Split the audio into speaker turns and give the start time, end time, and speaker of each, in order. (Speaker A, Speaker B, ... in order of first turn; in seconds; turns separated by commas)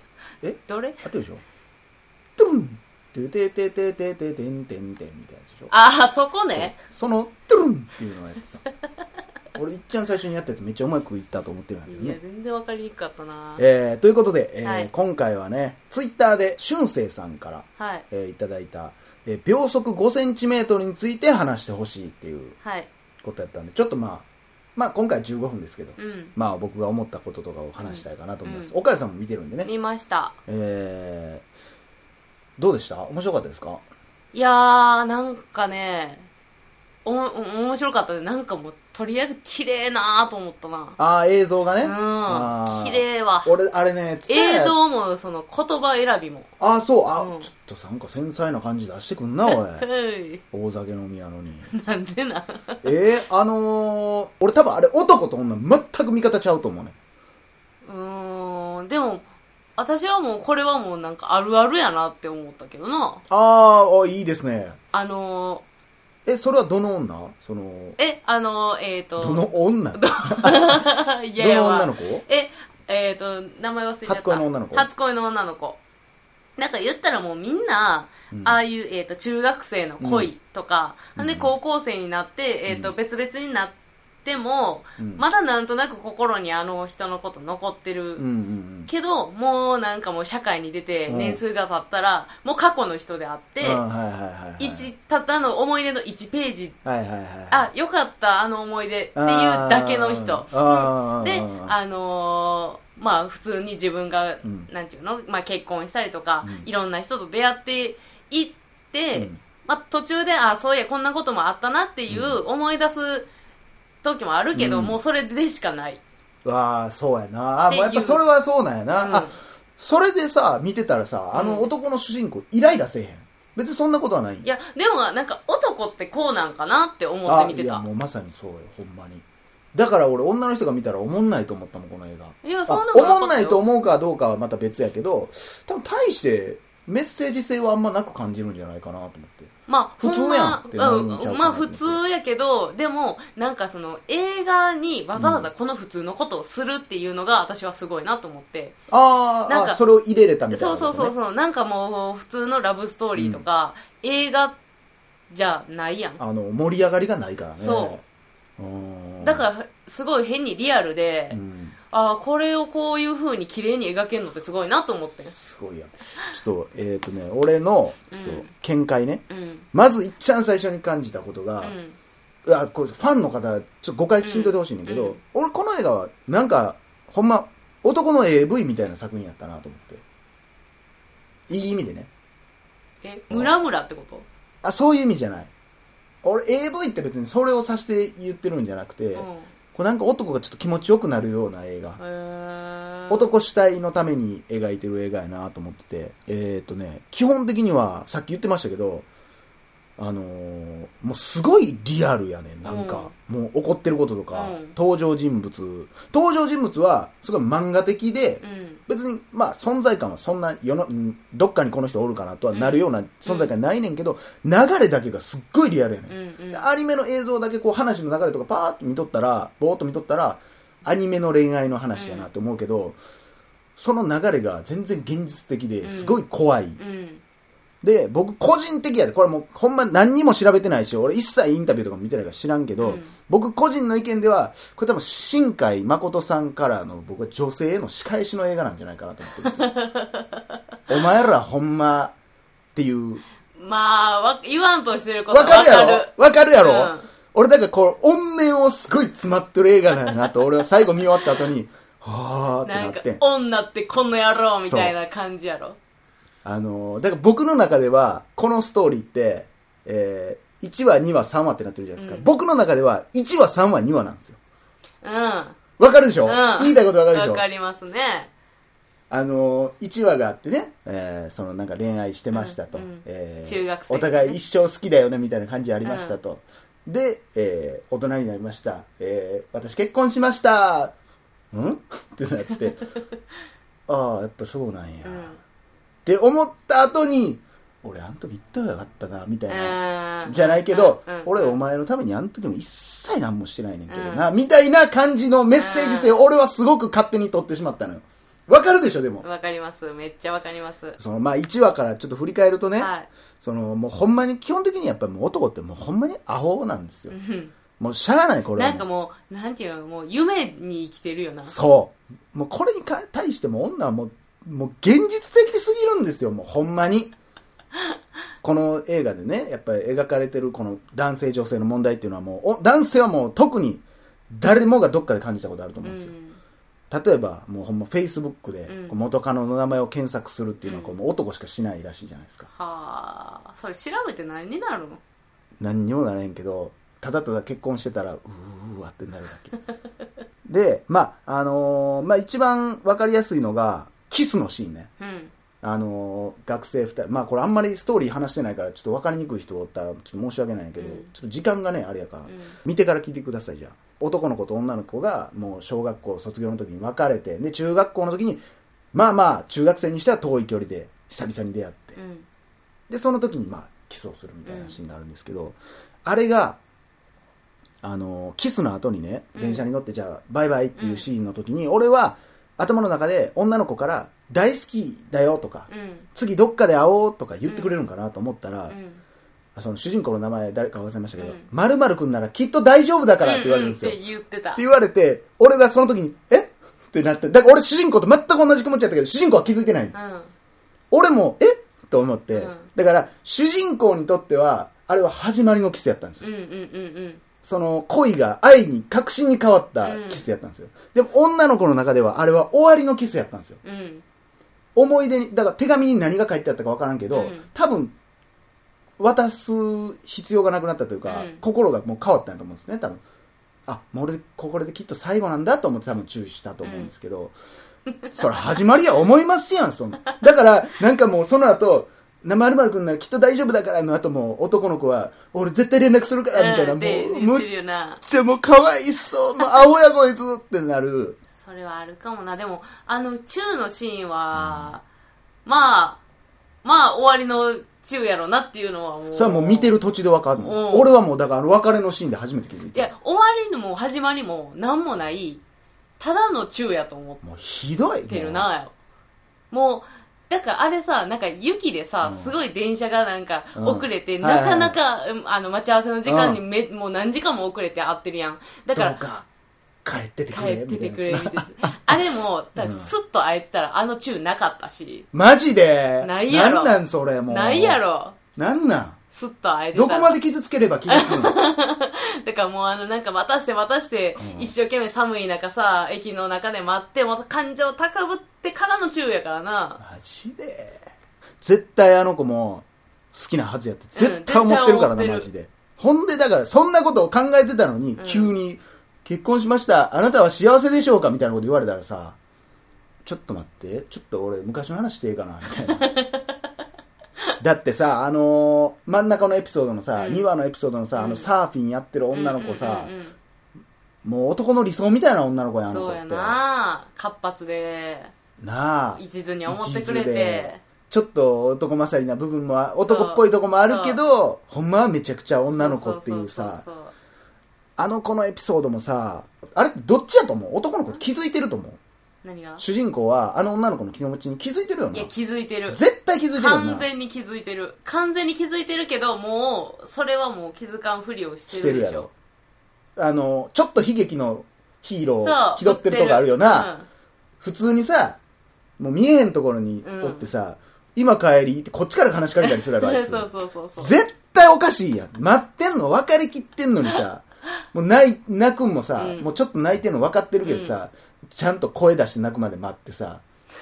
Speaker A: 0.4-1.4, Speaker B: 0.7-1.0, Speaker A: 2.4-5.7, Speaker B: 5.7-6.8, Speaker A: 6.5-8.6, Speaker A: 9.6-12.2, Speaker B: 11.9-13.6, Speaker A: 13.6-22.6, Speaker B: 14.6-14.9, Speaker B: 17.8-18.0, Speaker B: 22.6-22.9, Speaker A: 23.2-29.7, Speaker B: 26.0-26.3, Speaker B: 27.8-28.7, Speaker B: 29.6-30.4, Speaker A: 30.5-31.4, Speaker A: 32.6-33.8, Speaker B: 34.3-36.3, Speaker B: 37.0-41.0, Speaker A: 41.0-44.8, Speaker B: 41.8-43.5, Speaker B: 44.3-46.5, Speaker A: 46.6-49.9, Speaker B: 47.1-47.5, Speaker B: 49.4-50.4, Speaker A: 50.5-51.7, Speaker B: 51.7-52.8, Speaker A: 52.8-56.9, Speaker B: 57.8-59.2, Speaker B: 59.8-63.2, Speaker A: 63.3-64.8, Speaker B: 64.9-65.6, Speaker A: 66.2-68.0, Speaker B: 68.0-75.8, Speaker A: 69.2-72.2, Speaker A: 74.0-74.9, Speaker B: 76.6-88.2, Speaker A: 78.3-78.6, Speaker A: 80.0-80.3, Speaker A: 81.2-81.5, Speaker A: 82.7-82.9, Speaker A: 85.0-85.3, Speaker A: 88.2-88.9, Speaker B: 88.9-93.8, Speaker A: 91.1-91.4, Speaker A: 93.6-94.9, Speaker B: 94.6-96.8, Speaker A: 96.8-97.7, Speaker B: 97.5-113.3, Speaker A: 99.1-101.7, Speaker A: 104.4-104.7, Speaker A: 106.4-106.7, Speaker A: 109.1-109.4, Speaker A: 112.1-112.4, Speaker B: 114.0-116.0, Speaker A: 114.5-115.0, Speaker A: 116.4-124.5, Speaker B: 117.7-118.2, Speaker B: 119.0-119.3, Speaker B: 121.3-121.7, Speaker B: 124.4-127.8, Speaker A: 127.2-142.0, Speaker B: 132.4-133.6, Speaker B: 139.7-148.8, Speaker A: 145.2-145.5, Speaker A: 148.9-151.1, Speaker B: 149.5-149.8, Speaker B: 150.5-154.6, Speaker A: 153.2-153.4, Speaker B: 155.3-156.2, Speaker A: 156.2-158.0, Speaker B: 157.6-158.0, Speaker A: 158.6-159.5, Speaker B: 159.2-165.3, Speaker A: 161.3-161.7, Speaker A: 165.3-171.7, Speaker B: 168.1-168.5, Speaker B: 169.3-169.7, Speaker B: 171.6-171.9, Speaker A: 172.4-180.0, Speaker B: 174.2-175.2, Speaker A: 181.5-182.1, Speaker B: 183.0-184.3, Speaker A: 184.6-185.5, Speaker A: 186.2-192.0, Speaker B: 189.1-189.5, Speaker B: 192.0-193.3, Speaker A: 193.1-199.1, Speaker A: 200.0-223.0, Speaker B: 202.7-203.1, Speaker B: 204.3-204.7, Speaker B: 208.4-208.8, Speaker B: 212.5-213.5, Speaker B: 216.1-216.7, Speaker B: 221.9-222.3, Speaker A: 223.8-226.8, Speaker B: 225.8-226.2, Speaker B: 226.8-227.2, Speaker A: 227.8-239.7, Speaker B: 232.8-233.1, Speaker B: 239.4-240.4, Speaker A: 240.9-242.1, Speaker A: 242.7-243.2, Speaker B: 243.5-247.1, Speaker A: 245.3-253.2, Speaker B: 252.6-255.8, Speaker A: 254.6-254.9, Speaker A: 256.4-264.4, Speaker B: 261.9-262.3, Speaker B: 265.0-265.6, Speaker A: 265.8-267.4, Speaker B: 266.2-268.3, Speaker A: 269.1-280.9, Speaker B: 272.3-274.4, Speaker B: 275.8-276.2, Speaker A: 281.5-282.9, Speaker A: 283.9-285.3, Speaker B: 285.0-285.4, Speaker A: 286.1-299.2, Speaker B: 289.5-291.6, Speaker B: 293.9-294.2, Speaker B: 295.5-296.2, Speaker B: 299.2-301.0, Speaker A: 301.0-302.9, Speaker B: 302.8-303.1, Speaker A: 303.4-307.1, Speaker B: 307.1-307.5, Speaker A: 307.8-308.8, Speaker B: 308.6-311.5, Speaker A: 311.4-317.1, Speaker A: 318.4-326.1, Speaker B: 325.8-326.4, Speaker A: 326.9-332.5, Speaker B: 328.7-329.0, Speaker B: 330.6-331.0, Speaker B: 332.5-335.0, Speaker A: 335.6-339.6, Speaker A: 340.4-344.9, Speaker B: 345.0-345.3, Speaker A: 345.6-358.4, Speaker B: 350.8-351.1, Speaker B: 352.3-352.6, Speaker A: 358.9-362.0, Speaker B: 361.9-362.2, Speaker A: 362.9-366.6, Speaker B: 364.4-364.8, Speaker A: 367.8-378.8, Speaker B: 369.3-369.6, Speaker B: 370.8-371.1, Speaker B: 375.7-376.1, Speaker B: 377.5-377.8, Speaker B: 378.7-379.0, Speaker A: 379.6-384.0, Speaker B: 381.2-381.5, Speaker B: 383.2-384.6, Speaker A: 384.5-389.9, Speaker B: 389.9-390.3, Speaker A: 390.9-396.2, Speaker B: 392.3-392.7, Speaker B: 396.2-397.2, Speaker A: 397.4-403.6, Speaker B: 399.8-400.3, Speaker B: 403.6-404.0, Speaker A: 404.7-407.9, Speaker B: 407.1-407.5, Speaker A: 409.0-413.0, Speaker B: 411.0-411.4, Speaker A: 413.7-417.3, Speaker B: 416.6-416.9, Speaker A: 418.1-427.5, Speaker B: 426.3-428.0, Speaker A: 428.0-431.2, Speaker B: 431.3-434.8, Speaker A: 434.3-434.7, Speaker B: 435.4-436.0, Speaker B: 436.6-439.8, Speaker A: 439.1-442.9, Speaker B: 440.4-440.9, Speaker B: 442.7-445.4, Speaker B: 446.0-447.2, Speaker A: 447.2-448.5, Speaker B: 448.1-448.7, Speaker B: 449.5-459.0, Speaker A: 452.0-452.4, Speaker A: 453.6-454.8, Speaker A: 456.0-456.4, Speaker A: 458.7-459.3, Speaker A: 459.8-462.0, Speaker B: 460.3-465.1, Speaker A: 462.6-462.9, Speaker A: 465.1-467.8, Speaker B: 466.0-468.2, Speaker A: 468.4-469.0, Speaker B: 469.1-470.2, Speaker A: 469.7-471.4, Speaker B: 470.9-479.8, Speaker A: 474.2-474.5, Speaker A: 479.8-480.8, Speaker A: 481.4-492.2, Speaker B: 483.9-485.3, Speaker B: 488.0-488.3, Speaker A: 493.0-495.9, Speaker B: 495.8-496.4, Speaker A: 497.4-502.9, Speaker B: 499.9-500.3, Speaker B: 500.9-501.3, Speaker B: 502.1-503.1, Speaker A: 504.0-506.4, Speaker B: 505.6-508.1, Speaker A: 508.4-516.6, Speaker B: 508.9-510.6, Speaker B: 512.8-514.0, Speaker B: 515.4-516.9, Speaker A: 517.8-521.8, Speaker B: 522.2-522.6, Speaker A: 522.6-525.1, Speaker B: 524.9-525.8, Speaker A: 525.7-526.9, Speaker B: 526.3-532.1, Speaker A: 531.5-532.1, Speaker A: 533.0-536.7, Speaker B: 535.2-536.9, Speaker A: 537.4-538.2, Speaker A: 538.8-553.2, Speaker B: 539.8-540.3, Speaker B: 542.4-544.0, Speaker B: 548.9-549.3, Speaker B: 550.4-550.8